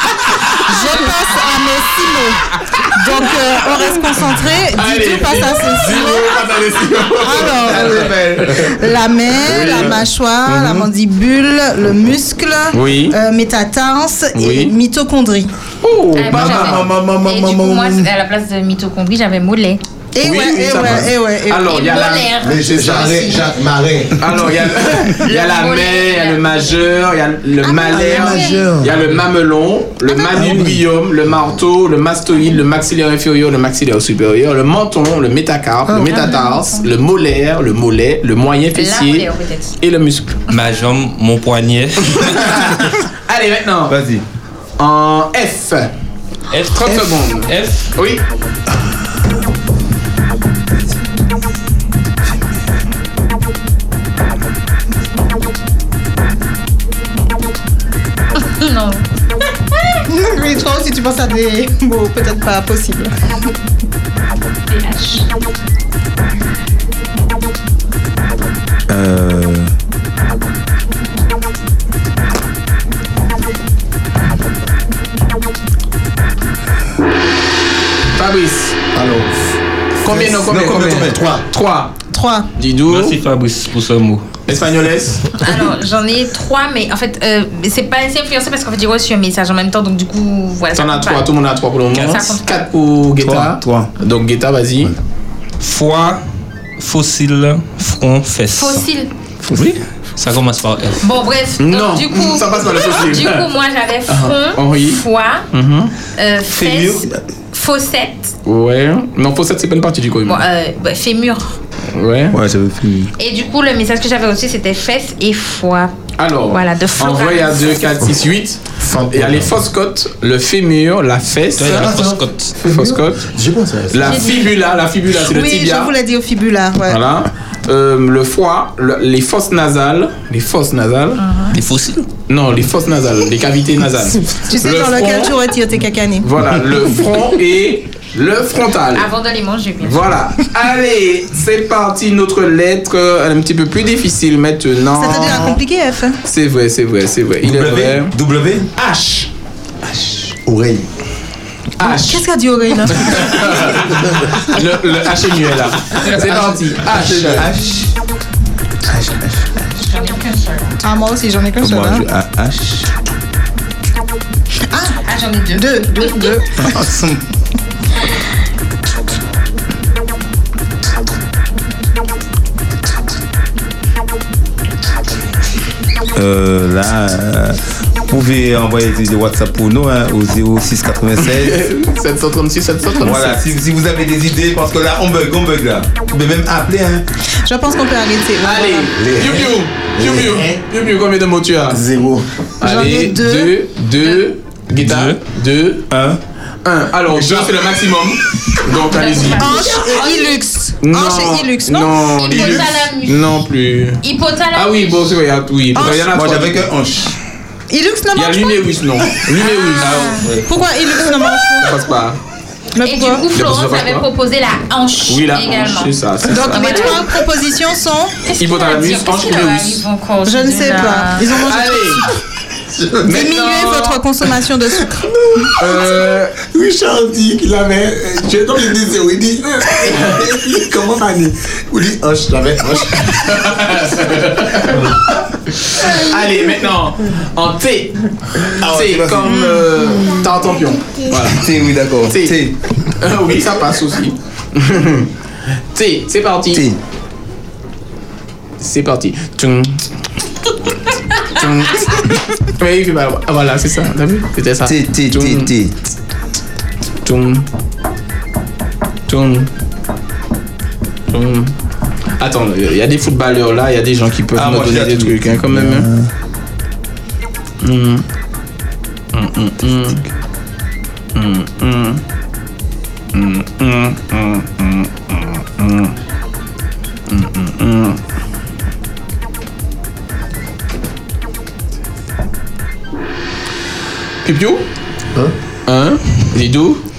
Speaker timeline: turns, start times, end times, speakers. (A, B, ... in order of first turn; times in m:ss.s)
0:00.7-0:06.4 A
0:04.6-0:08.8 B
0:07.2-0:08.1 A
0:07.6-0:08.7 C
0:08.7-0:15.5 A
0:09.3-0:10.9 B
0:12.7-0:13.2 B
0:14.4-0:14.7 B
0:15.8-0:16.8 B
0:16.1-0:19.8 D
0:16.3-0:18.1 C
0:20.1-0:21.7 A
0:20.2-0:22.4 B
0:21.6-0:23.6 D
0:22.4-0:24.4 E
0:24.2-0:39.3 B
0:25.2-0:27.1 D
0:27.6-0:28.6 A
0:28.0-0:28.7 D
0:28.4-0:28.9 C
0:30.4-0:30.8 E
0:30.4-0:30.7 C
0:36.0-0:36.3 A
0:36.0-0:36.9 D
0:38.7-0:39.8 D
0:39.8-0:40.4 B
0:40.5-0:42.6 F
0:43.3-0:44.0 B
0:43.9-0:44.2 C
0:44.8-0:45.9 B
0:46.5-0:48.2 B
0:47.5-0:47.8 F
0:58.4-0:59.0 D
1:00.1-1:03.2 A
1:04.7-1:05.3 D
1:08.9-1:09.7 C
1:18.2-1:18.8 B
1:18.9-1:19.4 E
1:20.0-1:22.0 B
1:20.0-1:21.4 E
1:20.4-1:21.2 C
1:22.1-1:22.5 A
1:22.6-1:23.2 B
1:22.9-1:24.3 F
1:24.5-1:25.4 B
1:25.4-1:31.3 D
1:30.7-1:35.0 B
1:31.9-1:32.6 D
1:33.2-1:33.9 C
1:35.6-1:36.2 F
1:36.8-1:38.9 F
1:38.5-1:39.1 D
1:39.5-1:41.0 F
1:41.0-1:45.5 D
1:41.6-1:43.5 B
1:44.1-1:45.9 B
1:46.2-1:48.4 D
1:46.5-1:47.2 C
1:48.4-1:50.4 B
1:50.2-1:51.6 D
1:51.9-1:52.4 B
1:52.3-1:53.1 C
1:53.2-1:55.9 D
1:56.2-2:02.0 B
1:56.5-1:58.0 D
1:58.8-1:59.6 E
2:01.6-2:02.6 F
2:01.7-2:04.2 E
2:02.6-2:03.3 B
2:03.9-2:06.0 B
2:04.1-2:04.5 D
2:05.2-2:07.0 A
2:06.9-2:11.2 B
2:11.2-2:11.6 D
2:11.5-2:12.1 F
2:12.3-2:15.4 B
2:14.5-2:16.3 A
2:16.2-2:19.1 B
2:18.9-2:20.2 D
2:19.8-2:25.6 B
2:24.9-2:26.2 A
2:26.2-2:28.1 B
2:27.4-2:28.7 C
2:28.8-2:29.3 B
2:29.9-2:30.3 B
2:30.4-2:30.9 E
2:31.8-2:32.3 B
2:31.8-2:33.6 A
2:32.8-2:37.5 B
2:36.9-2:37.9 C
2:38.9-2:39.5 C
2:39.9-2:40.7 D
2:40.8-2:42.0 A
2:41.6-2:42.9 C
2:44.7-2:45.0 A
2:45.1-2:46.3 D
2:45.5-2:46.8 A
2:46.6-2:47.2 C
2:56.2-3:01.6 C
3:01.2-3:03.4 B
3:03.0-3:07.0 C
3:07.4-3:09.0 A
3:08.4-3:11.8 B
3:09.0-3:10.6 E
3:11.7-3:12.3 E
3:12.6-3:15.9 B
3:12.6-3:13.5 A
3:14.8-3:15.2 F
3:15.9-3:16.2 C
3:16.6-3:20.0 B
3:18.9-3:20.4 D
3:19.2-3:22.6 A
3:20.8-3:26.7 B
3:22.2-3:23.3 D
3:24.0-3:25.2 D
3:25.8-3:26.0 A
3:26.0-3:27.2 C
3:27.7-3:28.8 A
3:28.2-3:30.4 B
3:29.4-3:31.9 A
3:29.7-3:30.2 D
3:31.6-3:32.2 B
3:32.7-3:33.2 A
3:32.8-3:37.1 D
3:33.2-3:34.1 B
3:35.1-3:37.0 B
3:36.3-3:38.3 A
3:38.2-3:41.4 D
3:38.4-3:39.8 B
3:40.3-3:42.2 A
3:41.4-3:42.1 B
3:42.7-3:43.0 E
3:43.0-3:44.3 B
3:43.1-3:45.1 A
3:45.6-3:46.4 B
3:46.4-3:53.5 E
3:49.8-3:50.4 B
3:52.8-3:55.0 B
3:55.7-4:01.6 B
3:58.6-3:59.4 C
4:01.2-4:02.6 C
4:02.1-4:02.4 B
4:03.0-4:05.1 B
4:05.7-4:06.7 B
4:06.5-4:06.8 C
4:08.6-4:09.8 B
4:11.3-4:12.0 B
4:12.6-4:15.5 B
4:14.6-4:15.7 C
4:17.0-4:17.5 B
4:19.1-4:19.5 B
4:21.1-4:21.6 B
4:22.2-4:25.9 B
4:24.3-4:26.1 C
4:27.6-4:28.0 B
4:29.1-4:30.0 B
4:31.2-4:32.0 B
4:33.1-4:36.0 B
4:37.1-4:38.0 B
4:44.2-4:44.7 B
4:45.7-4:46.8 B